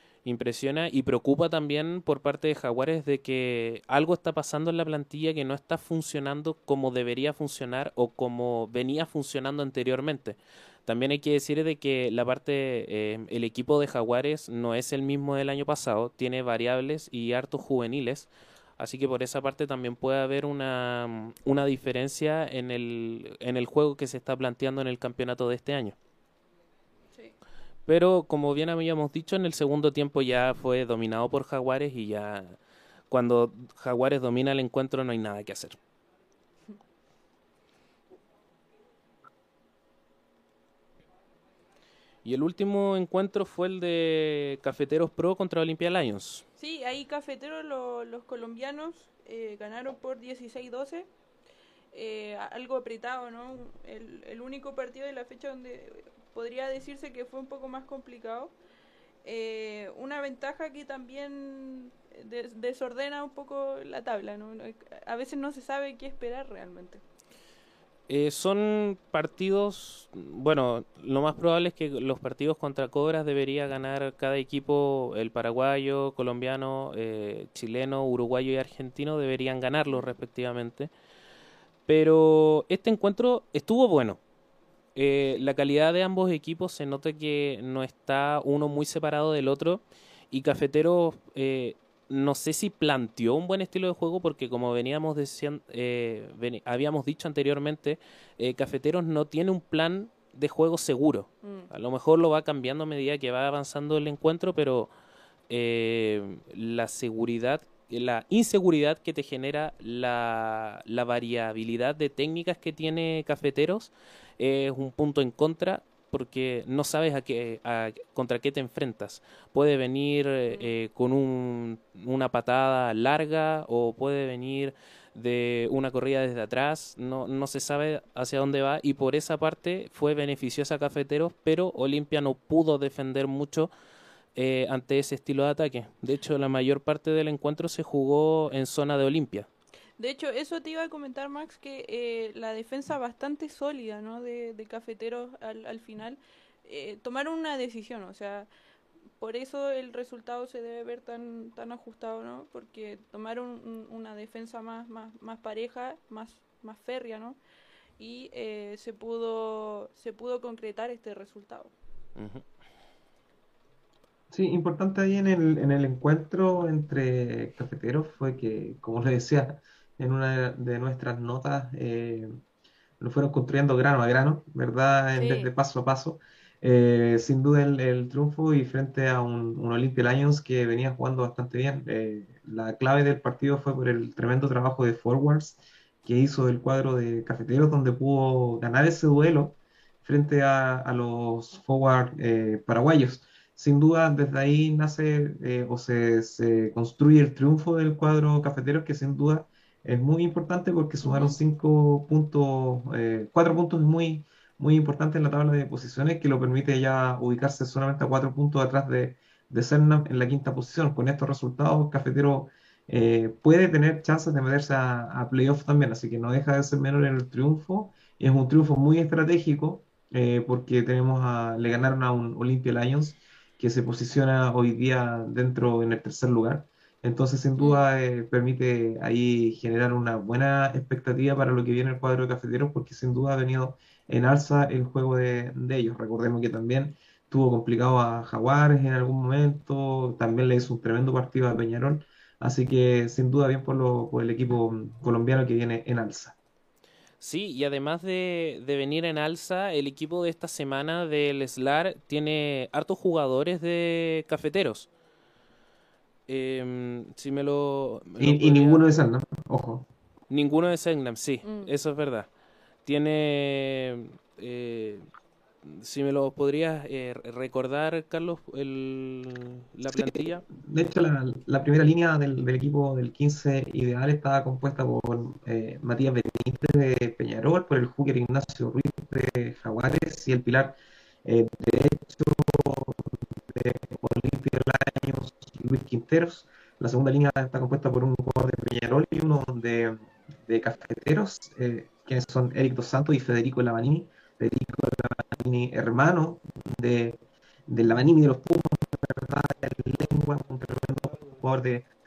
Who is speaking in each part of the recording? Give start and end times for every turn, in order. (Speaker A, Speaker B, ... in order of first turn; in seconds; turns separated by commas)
Speaker A: 0.2-25.9, Speaker A: 27.9-32.6, Speaker A: 33.1-35.8, Speaker A: 42.2-46.4, Speaker B: 46.6-51.1, Speaker B: 51.9-58.5, Speaker B: 59.2-67.0, Speaker A: 68.1-80.9, Speaker A: 81.9-84.2, Speaker A: 84.9-104.9, Speaker B: 101.4-101.7, Speaker A: 105.5-133.7, Speaker A: 134.3-139.5, Speaker B: 140.0-148.5, Speaker B: 149.2-157.4, Speaker B: 158.0-161.7, Speaker A: 162.2-162.4, Speaker C: 164.3-172.4, Speaker C: 173.0-246.4, Speaker B: 175.1-175.5, Speaker B: 201.0-201.4, Speaker A: 247.2-254.9, Speaker A: 256.3-258.9, Speaker C: 258.2-259.9, Speaker A: 260.3-262.3, Speaker B: 261.4-261.7, Speaker A: 262.8-265.1, Speaker A: 265.6-270.5, Speaker C: 269.9-301.9